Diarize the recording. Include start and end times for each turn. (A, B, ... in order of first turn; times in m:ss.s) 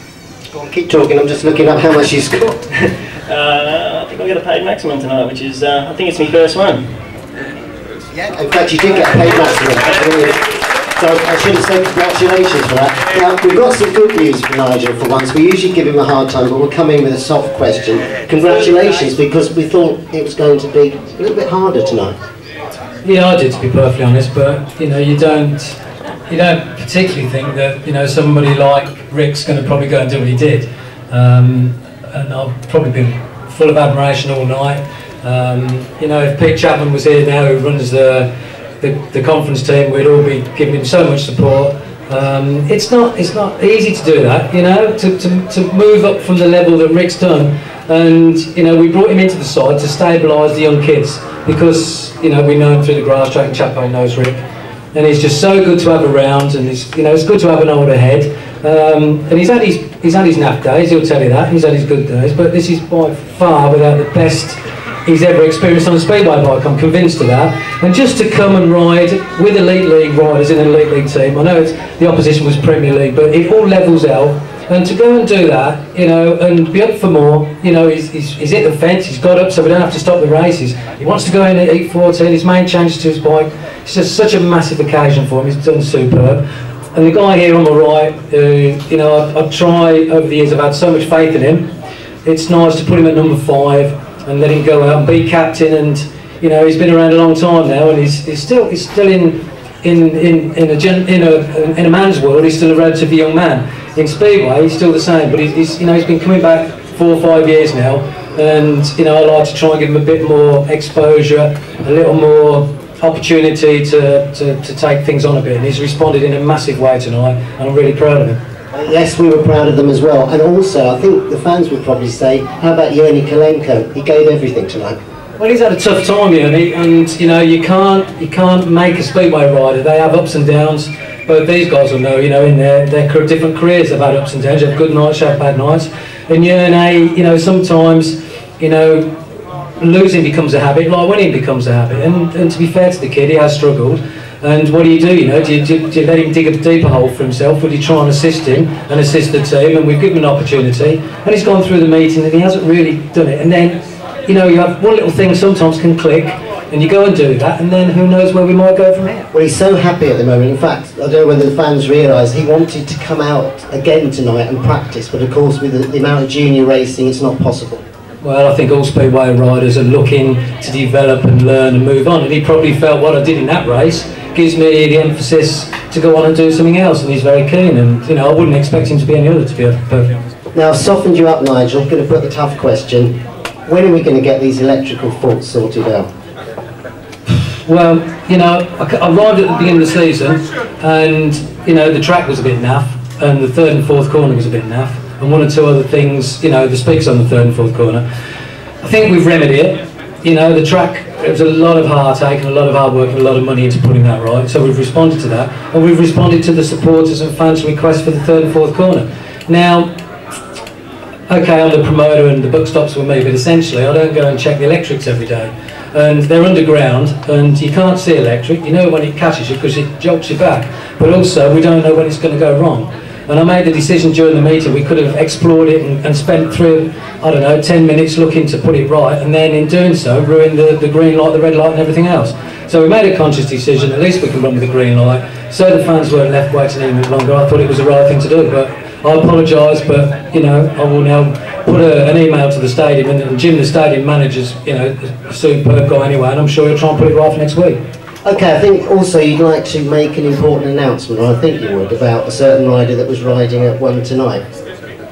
0:00.5-0:02.6 A
0:02.8-0:06.9 B
0:08.2-0:22.2 A
0:23.0-0:54.4 C
0:54.9-1:31.7 C
1:32.2-1:58.4 C
1:58.7-2:05.0 A
2:05.4-2:19.2 C
2:19.8-2:39.3 C
2:39.3-2:47.8 A
2:48.2-3:00.2 C
3:00.6-3:06.1 A
3:07.5-3:18.1 C
3:18.8-3:30.0 C
3:31.3-4:07.8 C
4:08.2-4:14.5 A